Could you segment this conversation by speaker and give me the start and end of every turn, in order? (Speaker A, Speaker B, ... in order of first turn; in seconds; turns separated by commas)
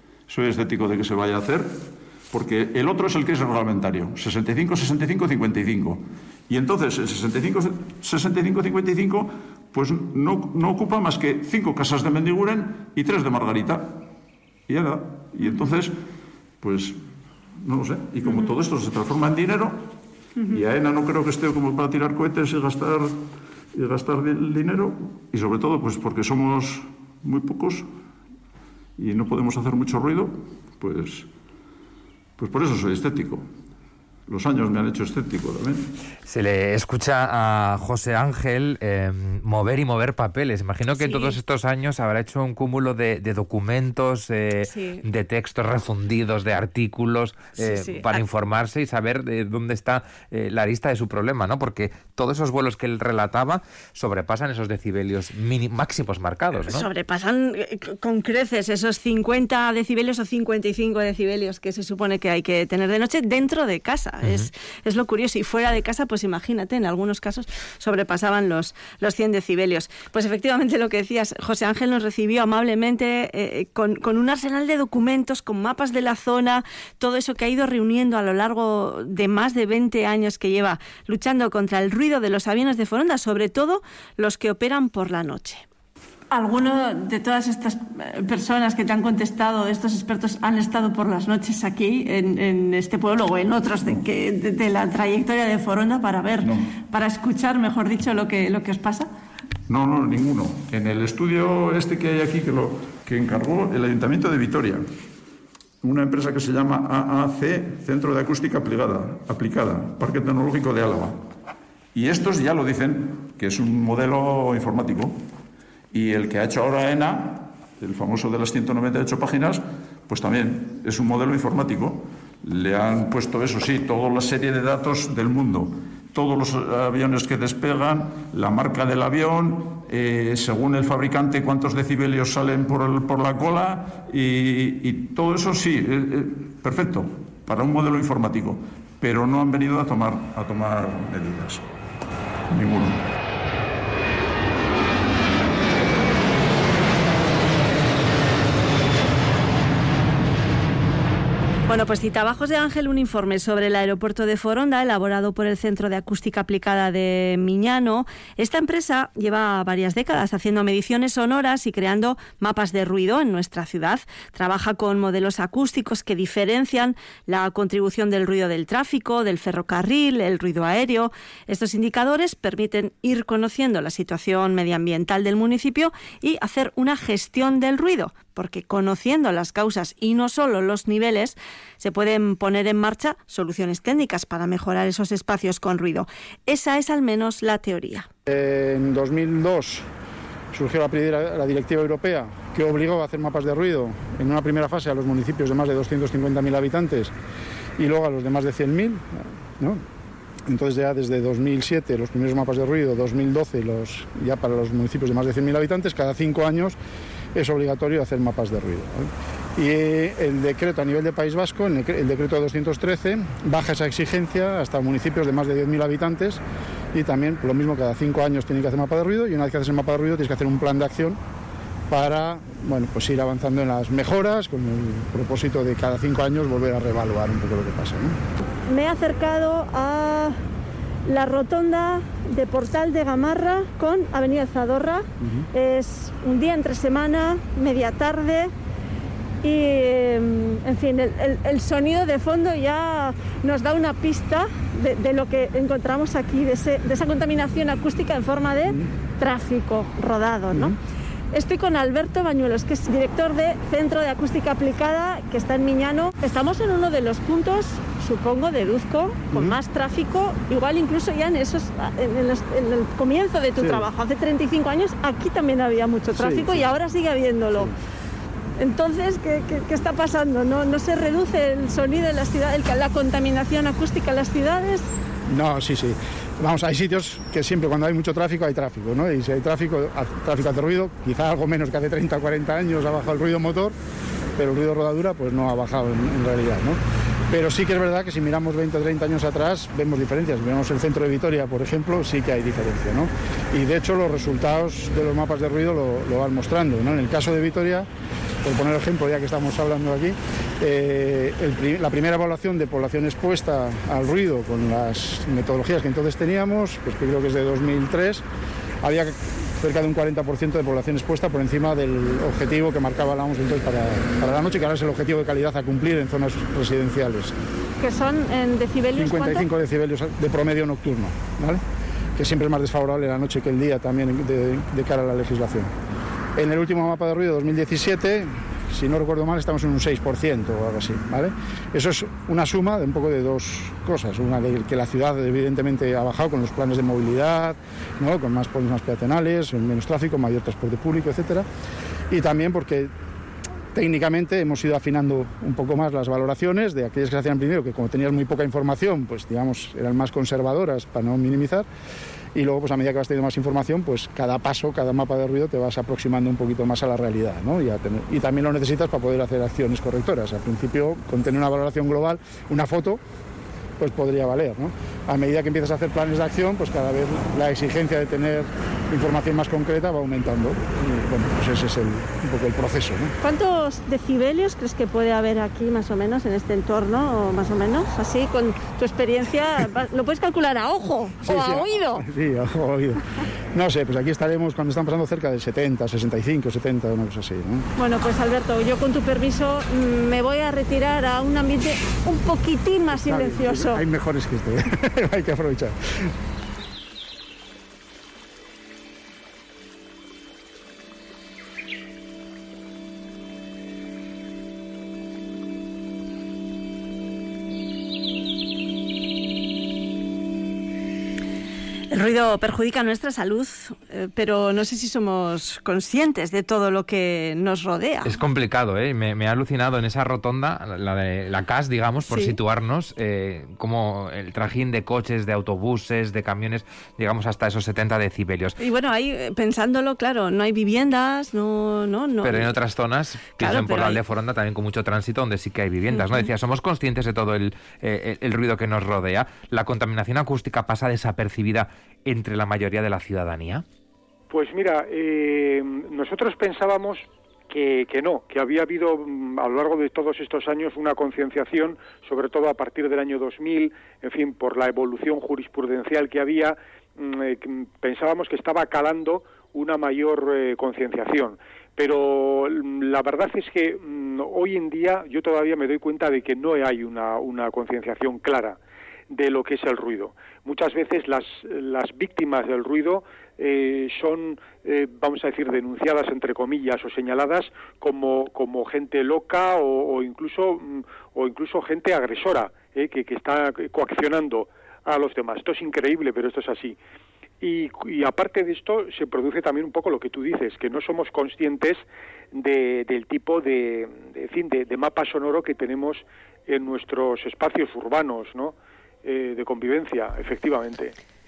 Speaker A: 0.3-14.1, Speaker A: 14.7-16.0, Speaker A: 16.6-17.0, Speaker A: 17.6-19.9, Speaker A: 20.5-27.9, Speaker A: 29.0-31.3, Speaker A: 32.4-33.5, Speaker A: 34.3-35.9, Speaker B: 36.3-56.9, Speaker C: 41.0-41.4, Speaker C: 44.7-45.0, Speaker C: 47.6-48.2, Speaker C: 56.5-85.6, Speaker C: 86.3-99.1, Speaker A: 96.4-96.7, Speaker A: 99.7-104.8, Speaker A: 105.8-111.2, Speaker A: 111.9-115.2, Speaker A: 115.9-141.7, Speaker A: 142.5-143.0, Speaker C: 151.7-188.1, Speaker D: 188.3-189.9, Speaker D: 190.5-197.1, Speaker D: 197.8-199.8, Speaker D: 200.5-206.8, Speaker D: 207.3-216.4, Speaker D: 216.9-221.2, Speaker D: 221.9-228.2, Speaker C: 228.7-230.4, Speaker C: 231.1-238.5, Speaker D: 235.2-235.5, Speaker C: 239.4-250.8, Speaker D: 250.5-250.8, Speaker C: 251.3-267.7, Speaker D: 259.3-259.6, Speaker D: 263.6-263.9, Speaker D: 266.1-266.7, Speaker C: 268.6-274.9, Speaker D: 275.3-283.8, Speaker D: 284.4-286.8, Speaker D: 287.3-297.9, Speaker D: 298.4-308.2, Speaker D: 308.8-317.4, Speaker C: 317.8-319.5, Speaker D: 319.0-321.6, Speaker D: 322.2-325.7, Speaker D: 326.4-341.5, Speaker D: 342.1-342.9, Speaker D: 343.7-351.7, Speaker D: 352.3-363.0, Speaker D: 363.8-373.1, Speaker C: 373.2-382.0, Speaker D: 381.2-387.7, Speaker C: 387.8-393.8, Speaker D: 392.9-396.1, Speaker C: 411.9-418.2, Speaker B: 418.1-428.6, Speaker C: 422.1-422.4, Speaker C: 428.6-432.5, Speaker B: 432.2-443.6, Speaker C: 433.4-434.0, Speaker C: 435.9-436.2, Speaker E: 444.3-468.6, Speaker E: 469.1-486.8, Speaker E: 487.4-491.8, Speaker E: 492.3-500.9